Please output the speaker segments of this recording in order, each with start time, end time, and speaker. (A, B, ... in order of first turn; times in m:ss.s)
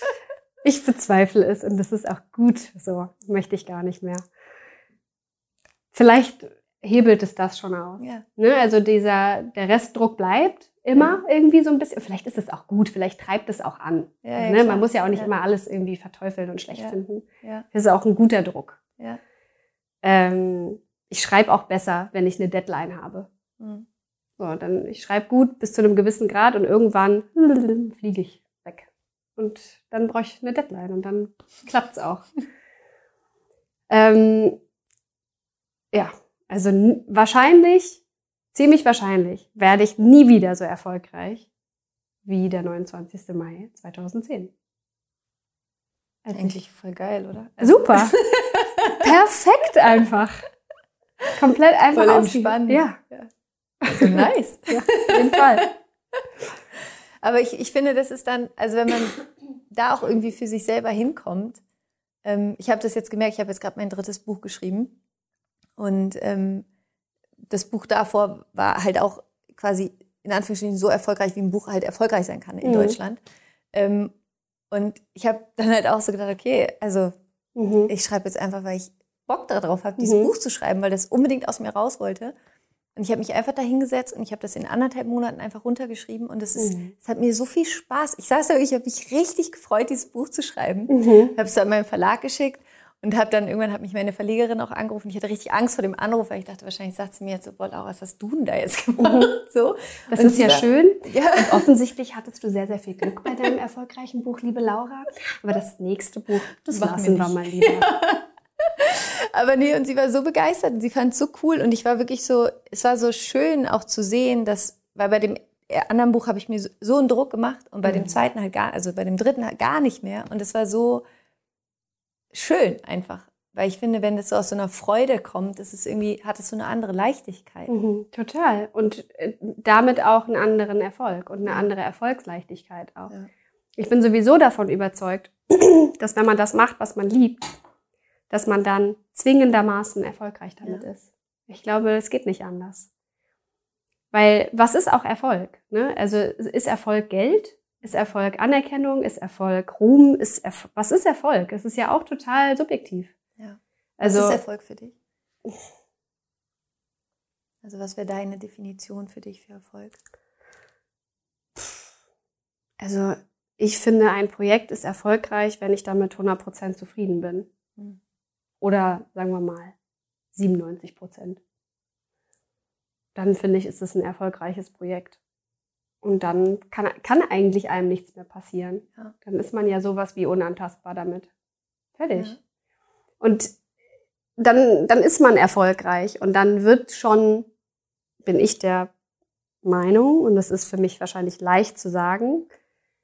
0:00.6-0:04.2 A
0:05.9-0:18.8 A
0:08.0-0:08.2 B
0:14.2-0:15.3 B
0:16.7-0:17.6 B
0:20.0-0:23.3 A
0:23.6-0:23.9 B
0:24.4-0:32.2 A
0:33.9-0:34.6 A
0:35.9-0:38.0 A
0:38.5-0:41.5 A
0:42.2-0:44.5 A
0:46.2-0:46.6 A
0:46.3-0:49.1 B
0:47.6-0:48.2 A
0:49.0-0:50.4 A
0:51.4-0:53.0 A
0:51.9-0:53.3 B
0:53.8-0:55.7 A
0:53.9-0:55.7 B
0:57.2-1:01.6 B
1:02.2-1:05.0 B
1:05.8-1:06.7 B
1:07.5-1:13.2 B
1:12.6-1:13.0 A
1:13.7-1:14.1 B
1:14.7-1:17.2 B
1:17.6-1:17.9 A
1:17.9-1:22.4 B
1:20.0-1:20.3 A
1:23.0-1:41.7 B
1:26.6-1:26.9 A
1:30.9-1:31.3 A
1:39.0-1:39.3 A
1:40.1-1:47.9 A
1:46.6-2:01.0 B
1:57.9-1:58.1 A
2:02.3-2:07.7 B
2:07.7-2:13.1 A
2:13.8-2:17.4 A
2:18.3-2:22.9 A
2:24.1-2:33.2 A
2:33.4-2:35.0 B
2:34.0-2:34.4 A
2:37.6-2:40.0 B
2:42.8-2:47.5 A
2:48.6-2:49.8 A
2:50.3-2:51.4 A
2:53.2-2:55.2 A
2:56.0-3:01.3 A
3:02.0-3:02.4 A
3:03.2-3:03.6 A
3:04.4-3:07.5 A
3:08.2-3:08.9 A
3:09.6-3:12.5 A